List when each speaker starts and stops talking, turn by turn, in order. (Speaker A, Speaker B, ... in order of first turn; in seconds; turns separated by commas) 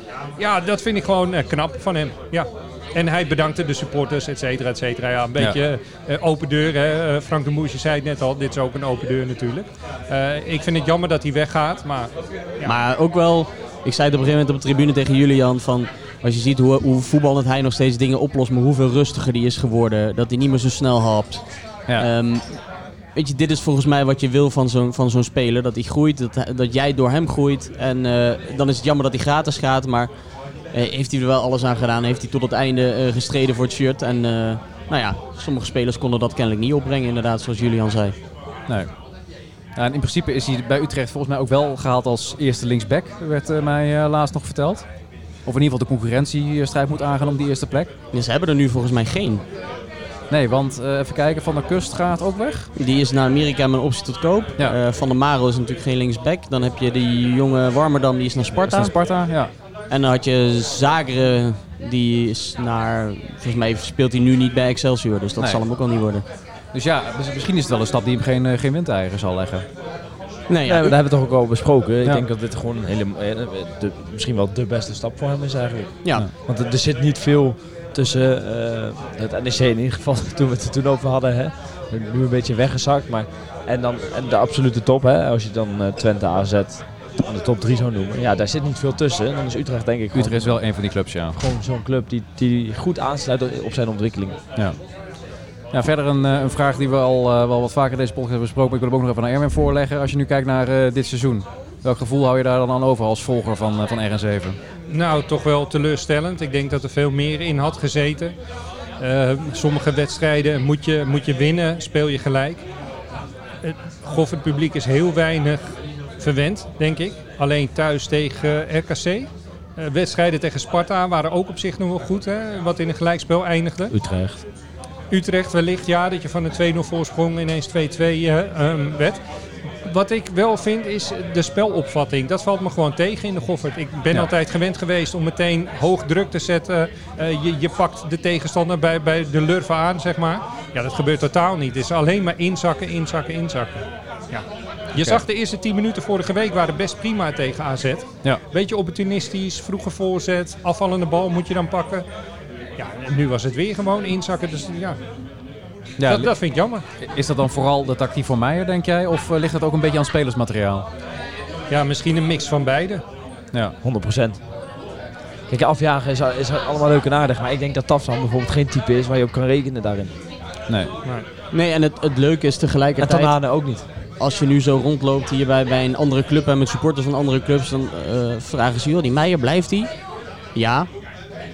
Speaker A: 0.4-12.8, Speaker B: 12.6-38.1, Speaker C: 38.7-39.0, Speaker C: 39.7-47.9, Speaker B: 48.1-49.4, Speaker C: 50.3-52.7, Speaker B: 52.8-59.0, Speaker C: 58.7-59.5, Speaker B: 59.9-66.2, Speaker C: 65.4-65.7, Speaker C: 66.7-69.7, Speaker B: 70.5-71.0, Speaker D: 70.7-94.4, Speaker B: 76.0-76.3, Speaker C: 90.1-91.4, Speaker C: 94.5-94.9, Speaker C: 95.7-104.6, Speaker A: 104.9-108.4, Speaker A: 109.0-112.7, Speaker A: 113.6-123.9, Speaker D: 123.9-124.4, Speaker A: 125.1-152.1, Speaker A: 152.8-155.0, Speaker C: 156.0-156.3, Speaker A: 156.0-156.9, Speaker C: 157.0-160.9, Speaker A: 161.7-163.0, Speaker D: 163.8-164.4, Speaker D: 165.5-170.1, Speaker C: 170.7-170.9, Speaker B: 171.5-179.9, Speaker D: 173.0-173.8, Speaker B: 180.5-180.9